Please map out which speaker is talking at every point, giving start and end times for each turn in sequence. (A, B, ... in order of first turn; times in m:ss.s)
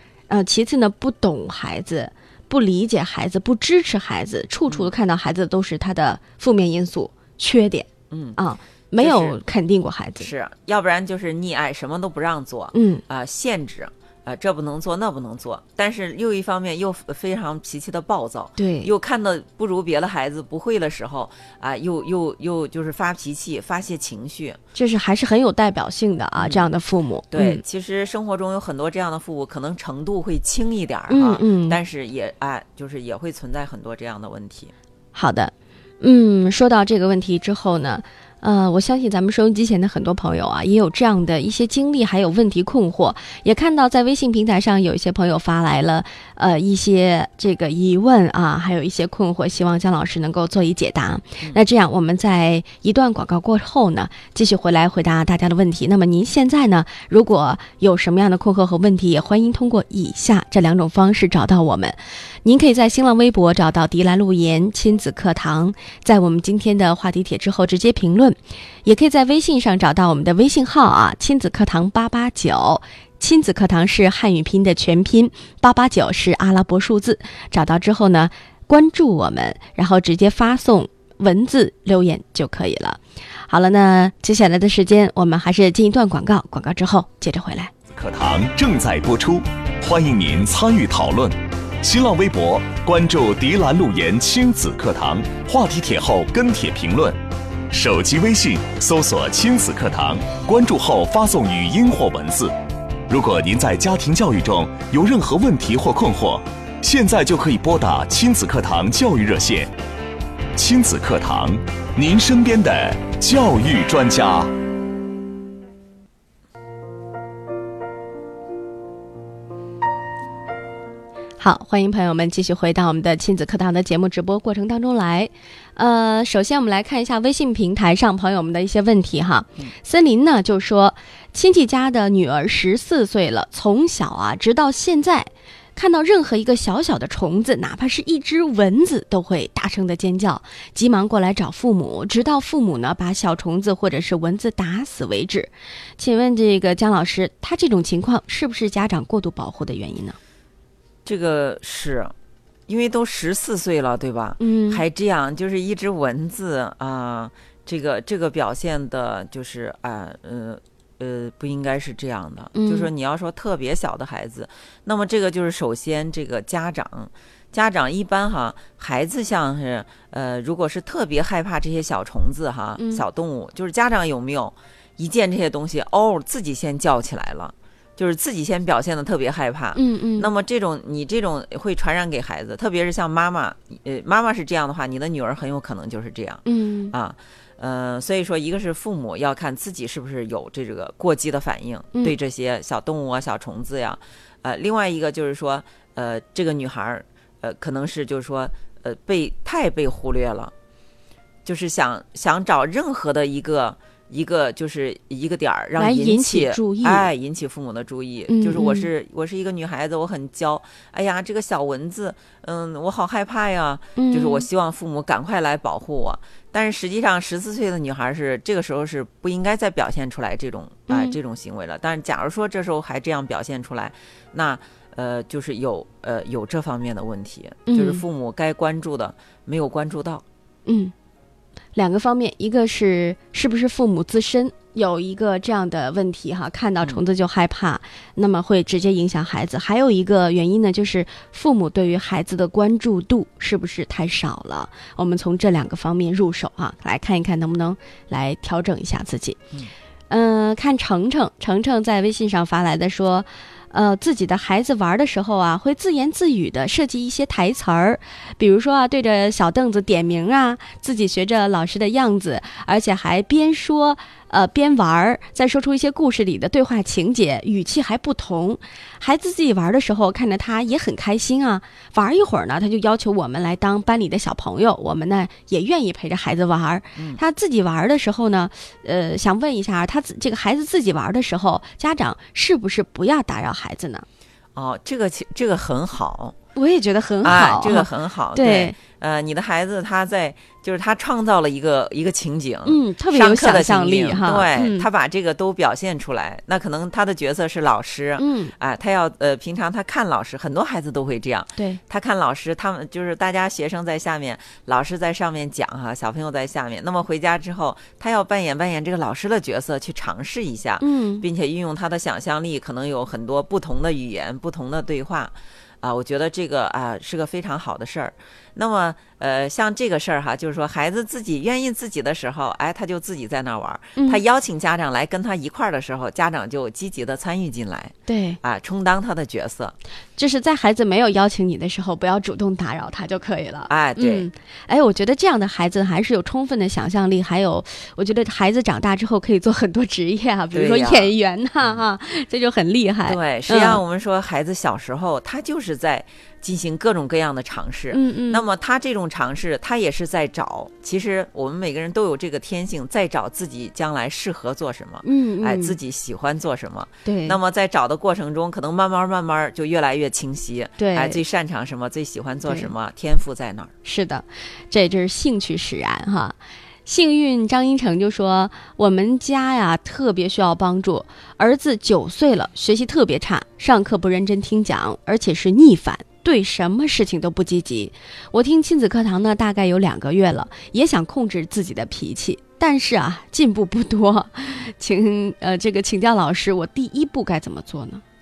0:00.3-0:10.3 A
0:04.7-0:04.9 B
0:08.1-0:08.4 B
0:09.0-0:09.4 B
0:10.2-0:24.6 B
0:12.7-0:13.0 A
0:18.6-0:18.9 A
0:24.7-0:27.6 A
0:26.4-0:26.7 B
0:27.3-0:34.7 B
0:31.1-0:31.8 A
0:35.1-1:27.7 A
1:27.9-1:37.2 C
1:37.7-1:42.5 C
1:43.1-1:49.7 C
1:50.6-1:54.5 C
2:01.4-2:30.2 A
2:31.0-2:32.1 B
2:32.7-3:20.5 B
2:34.4-2:34.8 A
2:42.5-2:42.9 A
2:52.8-2:53.0 A
2:59.7-3:00.3 A
3:06.4-3:06.9 A
3:21.4-3:50.2 B
3:25.8-3:27.1 A
3:28.3-3:28.9 A
3:34.0-3:34.5 A
3:40.9-3:41.2 A
3:47.6-3:48.0 A
3:50.6-3:50.9 A
3:51.8-4:09.4 A
4:10.1-4:44.0 A
4:36.9-4:37.2 B
4:44.5-4:46.4 B
4:46.6-4:48.8 A
4:47.2-5:29.8 B
4:52.6-4:54.9 A
4:58.2-4:58.5 A
5:10.8-5:11.2 A
5:24.0-5:24.2 A
5:28.1-5:28.4 A
5:30.2-5:43.8 A
5:33.7-5:34.3 B
5:40.5-5:41.1 B
5:43.0-6:03.7 B
5:47.9-5:48.4 A
5:55.0-5:55.8 A
5:57.0-5:57.4 A
6:00.8-6:01.2 A
6:02.4-6:02.7 A
6:03.8-6:28.0 A